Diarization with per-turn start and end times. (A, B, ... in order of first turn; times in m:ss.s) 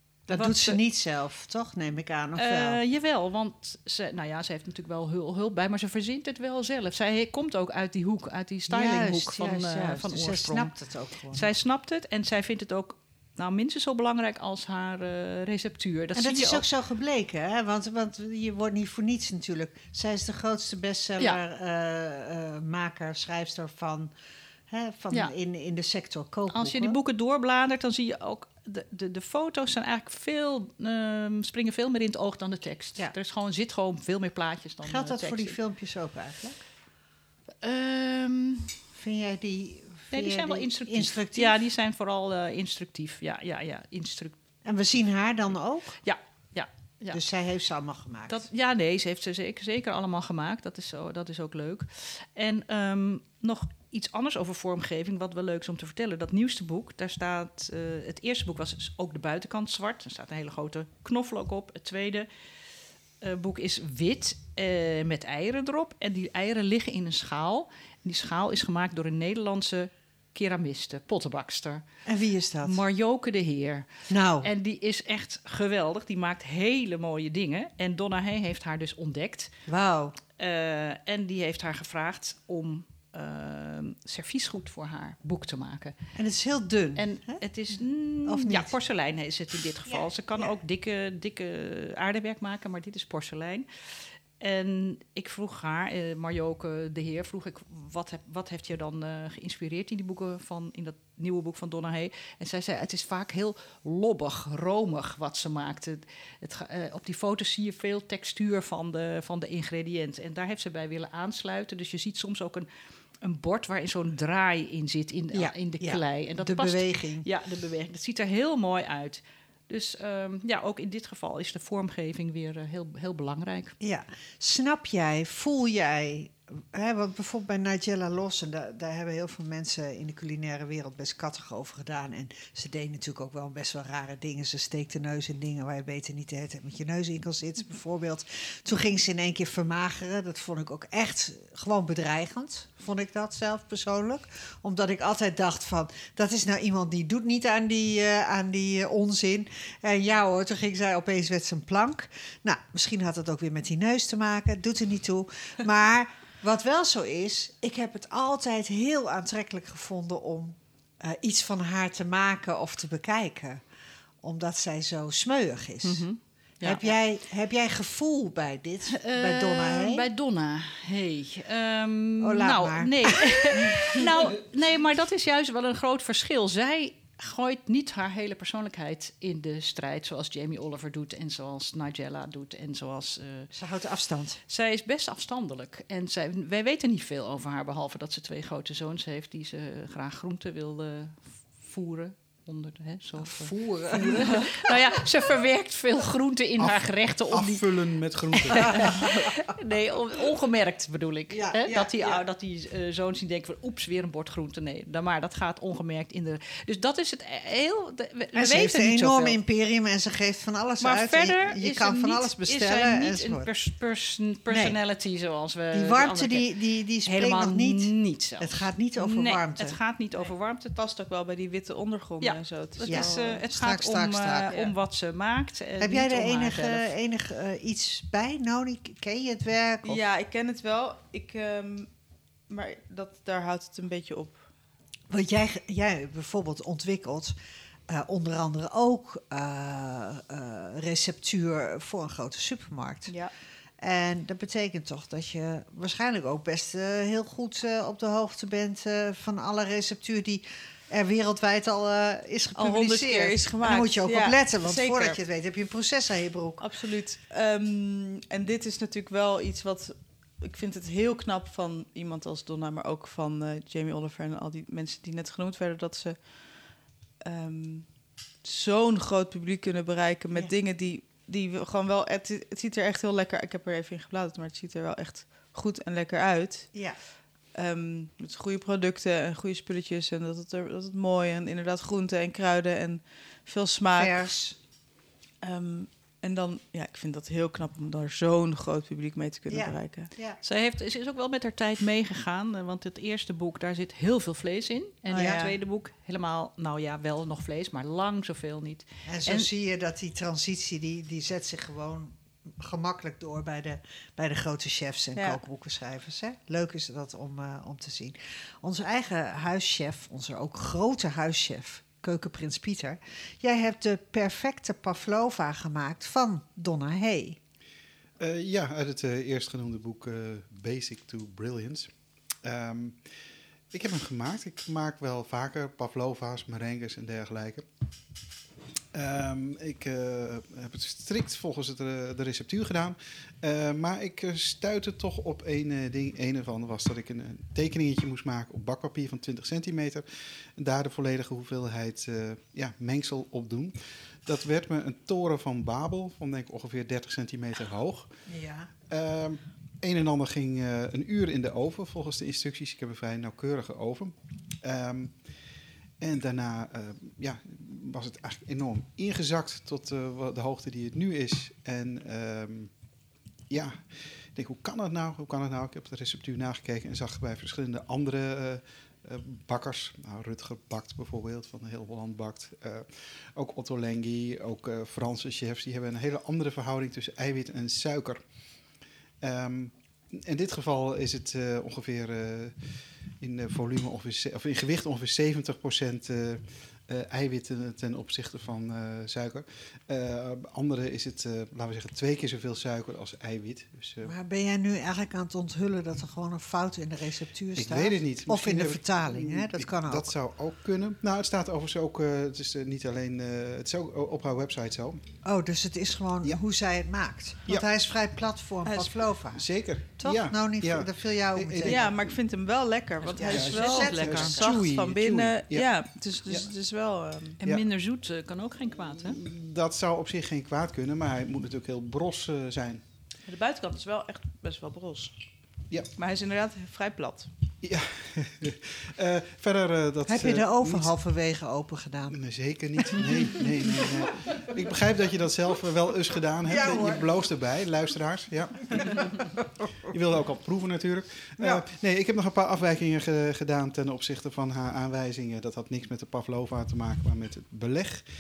0:00.3-0:00.8 A
0:00.3-0:02.8 B
0:02.4-0:10.7 A
0:08.7-0:11.5 B
0:11.3-0:16.6 A
0:16.2-0:24.1 B
0:24.7-0:27.0 B
0:26.5-0:35.6 A
0:34.8-0:36.6 B
0:37.6-0:38.8 A
0:39.0-0:41.6 B
0:40.1-0:44.4 A
0:44.6-0:46.0 B
0:46.0-0:47.2 A
0:47.1-0:48.4 B
0:48.3-1:02.3 A
1:03.2-1:11.8 A
1:12.1-1:12.8 B
1:12.6-1:19.5 A
1:14.1-1:14.5 B
1:19.7-1:20.2 B
1:20.4-1:26.0 A
1:26.2-1:27.4 B
1:27.0-1:33.7 A
1:28.3-1:28.7 B
1:29.9-1:30.5 B
1:34.4-1:52.7 A
1:53.2-2:03.8 A
1:55.3-1:57.3 B
2:03.8-2:43.6 B
2:44.2-2:46.1 B
2:45.8-2:47.0 A
2:46.6-2:50.1 B
2:48.9-3:03.5 A
2:52.2-2:54.1 B
3:03.5-3:04.4 B
3:04.5-3:29.4 A
3:13.2-3:14.8 B
3:16.6-3:18.9 C
3:18.5-3:19.5 B
3:21.3-3:22.2 B
3:28.4-3:33.5 B
3:30.8-3:36.5 A
3:34.5-3:34.8 B
3:35.7-3:39.8 B
3:37.0-3:40.8 A
3:40.8-3:43.4 D
3:42.2-3:46.9 A
3:42.9-3:44.5 B
3:44.5-3:44.8 D
3:45.8-3:50.0 B
3:49.8-3:51.9 D
3:52.5-3:54.5 D
3:55.1-3:57.4 B
3:57.9-4:03.2 B
4:03.1-4:03.3 D
4:03.8-4:16.6 B
4:12.6-4:15.2 D
4:16.6-4:26.3 D
4:27.2-4:27.9 D
4:28.4-4:36.7 D
4:36.7-4:37.0 B
4:37.5-4:44.2 D
4:44.0-4:44.6 B
4:45.4-4:50.1 D
4:49.5-4:50.4 B
4:50.4-4:59.5 A
4:55.1-4:55.6 D
4:55.1-4:55.5 B
4:59.1-5:17.4 B
5:05.2-5:05.4 D
5:18.2-5:21.9 C
5:22.4-5:23.1 C
5:23.7-5:27.6 C
5:28.9-5:40.1 C
5:40.6-5:48.1 C
5:48.3-5:48.7 B
5:48.9-5:55.2 C
5:56.0-6:02.7 C
6:03.5-6:18.2 C
6:19.2-6:22.6 C
6:23.2-6:34.1 C
6:34.0-6:40.1 B
6:37.6-6:45.0 C
6:45.2-6:51.9 B
6:48.6-6:49.0 D
6:49.3-6:51.9 C
6:51.6-6:57.4 D
6:53.0-6:54.6 A
6:53.2-6:54.4 B
6:53.3-6:55.7 C
6:57.4-6:59.2 A
6:59.0-7:02.8 C
7:03.3-7:05.1 D
7:06.0-7:07.3 D
7:07.6-7:10.9 C
7:10.1-7:12.2 B
7:12.1-7:28.1 C
7:12.9-7:14.1 B
7:16.4-7:17.1 B
7:21.4-7:21.7 B